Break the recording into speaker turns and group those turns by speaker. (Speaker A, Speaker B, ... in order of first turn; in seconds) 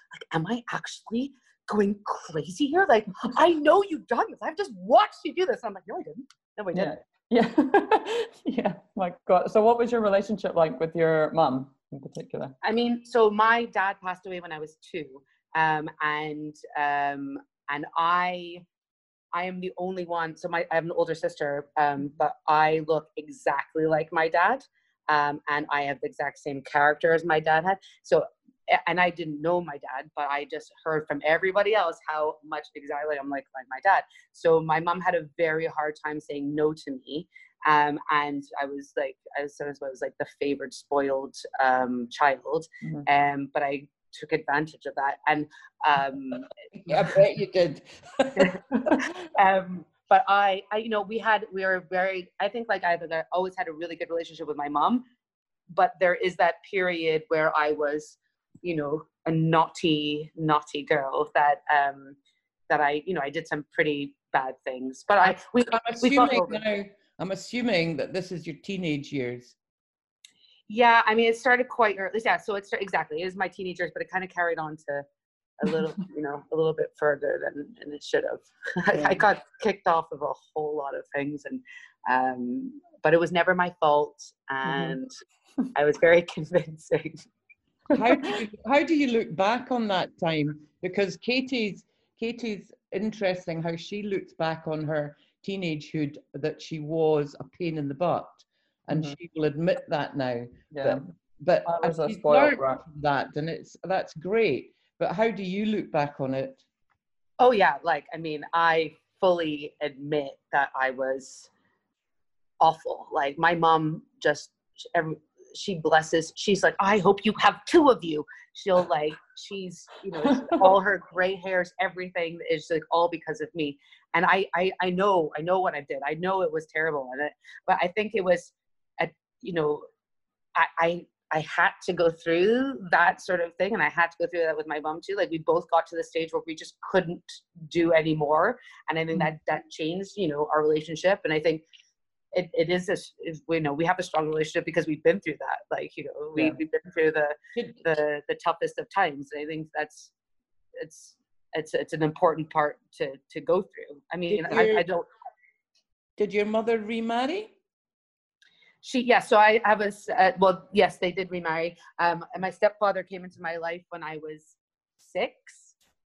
Speaker A: 0.3-7.0, 12.6-18.6, 19.3-46.5, 48.4-55.0, 55.7-62.2, 62.7-66.6, 70.7-75.0, 75.6-85.1, 85.8-87.3, 107.4-111.5, 112.6-129.8, 130.6-141.6, 142.3-150.1, 150.8-155.1, 158.8-165.7
Speaker B: 6.7-12.6, 78.9-79.2, 84.7-85.0, 98.9-99.2, 100.7-101.0, 101.7-102.8, 120.2-120.8
Speaker C: 46.8-49.0, 65.7-69.5, 87.9-106.6, 147.6-147.8, 154.3-154.8, 156.2-157.5